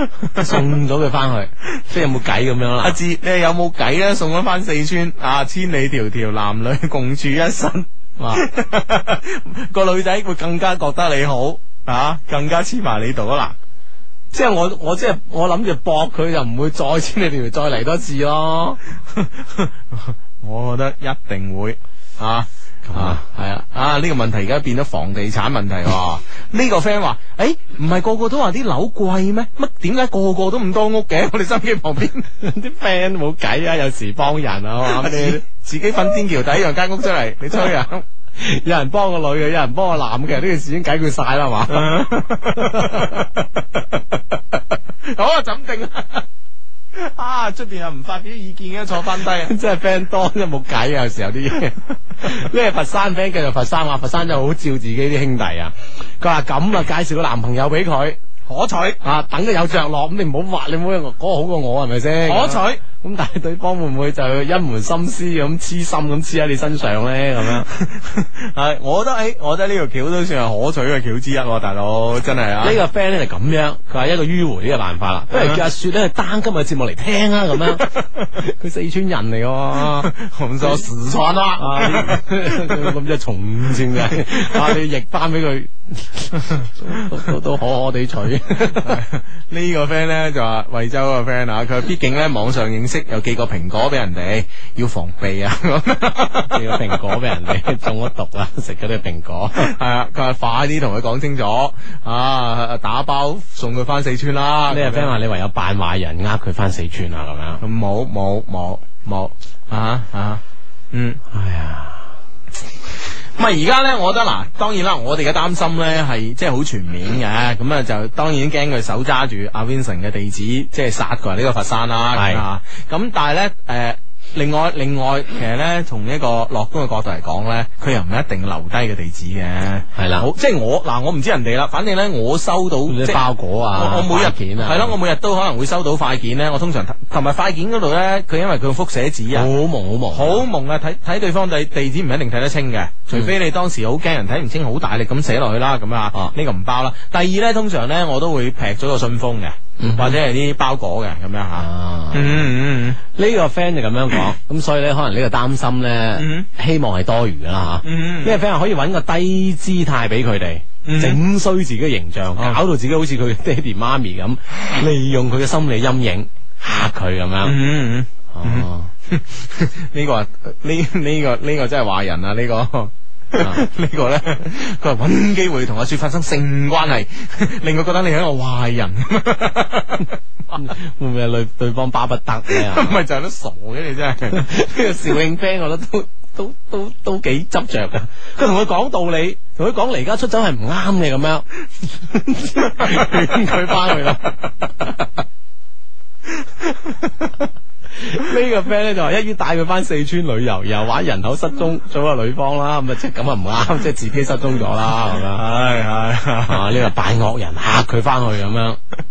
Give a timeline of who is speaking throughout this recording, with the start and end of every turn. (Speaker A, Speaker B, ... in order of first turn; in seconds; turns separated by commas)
Speaker A: 0.3-0.7, Speaker B: 0.3-3.0, Speaker A: 2.8-13.6, Speaker B: 8.2-8.4, Speaker B: 14.3-18.8, Speaker A: 19.1-32.3, Speaker B: 22.9-23.2, Speaker B: 32.4-35.4, Speaker A: 34.8-38.0, Speaker B: 38.4-43.2, Speaker A: 41.7-43.3, Speaker A: 45.0-46.2, Speaker A: 46.9-49.5, Speaker B: 49.4-58.2, Speaker A: 58.5-59.0, Speaker B: 59.0-67.7, Speaker A: 62.2-62.8, Speaker A: 67.7-72.8, Speaker B: 72.6-80.9, Speaker A: 75.3-75.6, Speaker A: 77.7-78.3, Speaker A: 79.8-82.9, Speaker B: 81.6-89.0, Speaker A: 88.8-97.0, Speaker B: 96.5-99.7, Speaker A: 99.5-105.1, Speaker B: 104.7-107.6, Speaker A: 107.6-111.2, Speaker B: 111.3-112.1, Speaker A: 113.3-139.5, Speaker B: 122.2-122.4, Speaker B: 129.9-130.3, Speaker B: 132.9-134.9, Speaker B: 139.3-140.4, Speaker A: 140.1-153.0, Speaker B: 149.8-150.2, Speaker B: 151.6-152.4, Speaker B: 153.1-167.6, Speaker A: 156.2-156.5, Speaker A: 157.8-158.4, Speaker A: 160.8-161.2, Speaker A: 167.4-180.6, Speaker B: 168.3-168.9, Speaker B: 173.4-173.6, Speaker B: 180.5-182.9, Speaker A: 182.5-184.4, Speaker B: 184.3-194.9, Speaker A: 192.8-193.2, Speaker B: 198.0-205.4, Speaker A: 205.3-206.8, Speaker B: 206.5-208.8